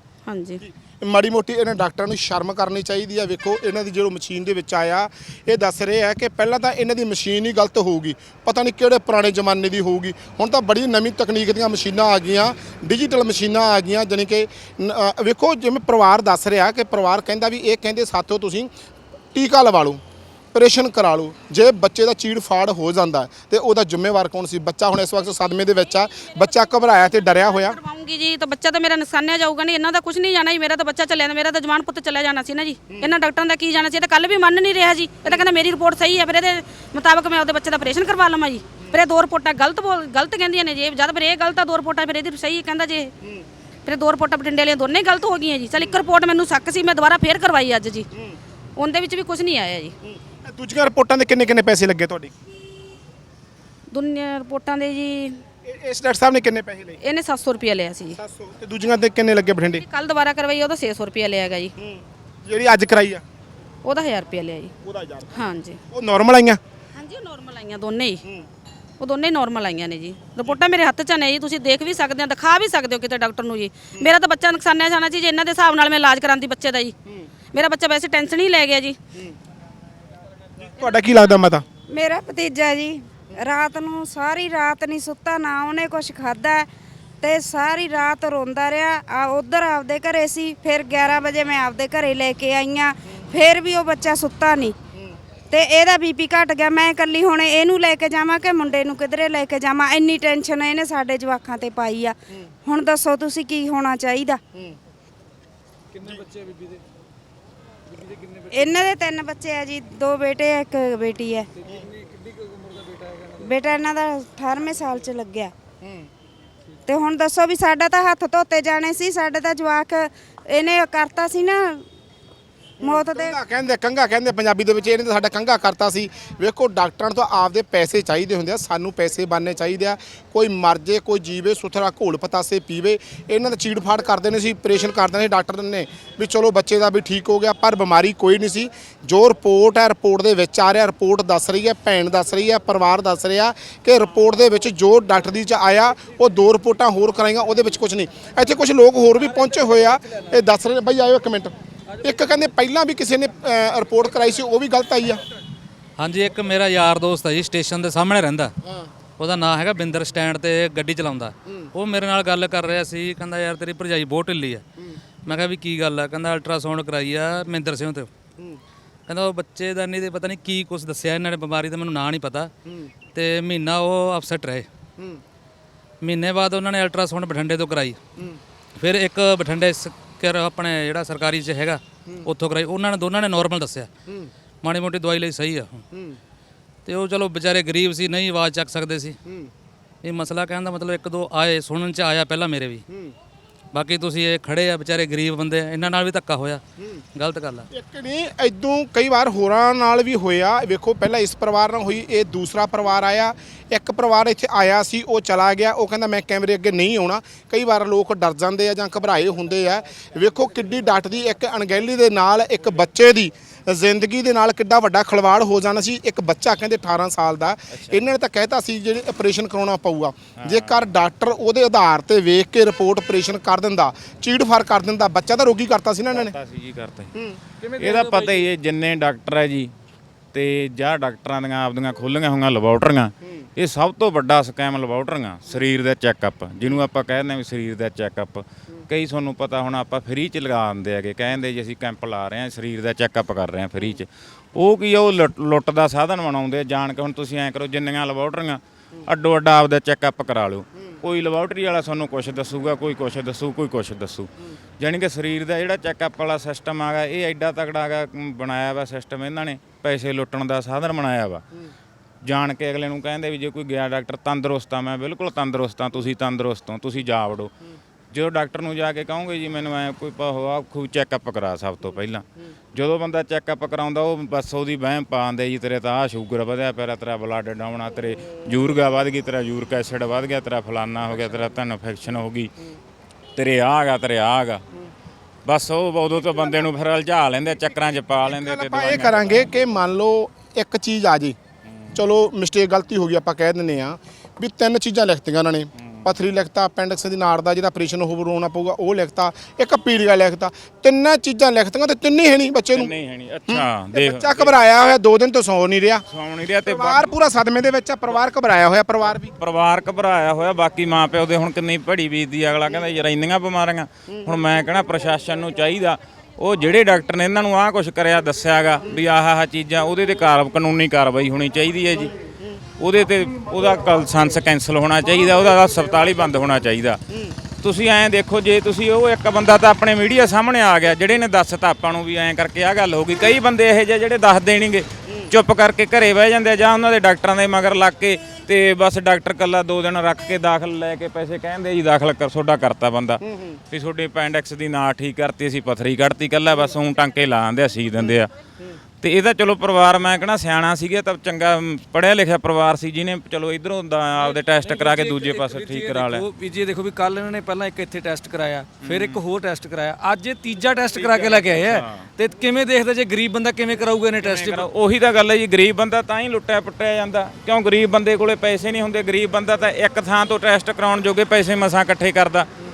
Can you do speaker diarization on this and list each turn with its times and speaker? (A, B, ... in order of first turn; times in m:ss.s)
0:00.3-0:00.6 A
0:00.6-0:18.7 B
0:19.3-0:20.0 B
0:20.5-0:27.8 B
0:26.1-0:43.1 A
0:43.8-0:48.1 A
0:48.8-0:49.9 A
0:50.1-0:52.3 B
0:53.9-0:55.4 A
0:55.6-0:57.0 B
0:57.0-0:58.2 A
0:58.2-0:59.8 B
0:59.8-1:01.7 A
1:01.8-1:03.2 B
1:03.8-1:04.7 A
1:04.8-1:05.4 B
1:05.3-1:05.8 A
1:05.9-1:06.6 B
1:06.9-1:08.2 A
1:09.0-1:17.0 A
1:17.5-1:19.0 A
1:20.6-1:21.6 B
1:21.9-1:26.7 C
1:27.2-1:34.8 C
1:35.5-1:44.4 C
1:46.0-1:46.8 D
1:47.9-1:48.5 D
1:48.5-1:51.5 C
1:51.6-1:53.4 D
1:53.4-1:55.5 C
1:55.8-1:56.1 B
1:56.9-2:01.8 C
2:02.8-2:35.2 B
2:02.8-2:03.4 C
2:36.0-2:38.5 E
2:39.2-2:44.6 E
2:45.2-2:48.1 E
2:49.1-2:52.5 E
2:53.1-2:54.7 E
2:56.0-2:58.0 E
2:58.8-3:03.9 E
3:04.6-3:05.8 E
3:06.8-3:09.2 E
3:10.0-3:12.8 E
3:13.7-3:16.6 E
3:16.8-3:17.0 B
3:17.1-3:17.6 E
3:17.7-3:46.3 B
3:37.7-3:38.0 F
3:40.4-3:40.9 F
3:46.1-3:47.1 F
3:47.6-3:48.5 D
3:47.7-3:49.7 F
3:50.3-4:14.3 F
4:14.8-4:21.4 F
4:22.2-4:27.5 F
4:28.1-4:42.5 F
4:43.4-4:44.6 F
4:45.4-4:49.5 F
4:48.2-4:51.4 B
4:51.6-4:52.0 F
4:51.9-5:02.9 B
4:55.8-4:56.1 F
5:02.7-5:04.6 F
5:03.5-5:06.0 B
5:06.1-5:07.2 F
5:06.6-5:09.3 B
5:09.4-5:22.1 F
5:22.8-5:27.0 F
5:27.6-5:43.2 F
5:43.7-5:48.3 F
5:49.0-5:56.3 F
5:54.5-6:04.7 D
5:58.8-5:59.2 F
6:00.9-6:02.1 F
6:04.2-6:12.5 F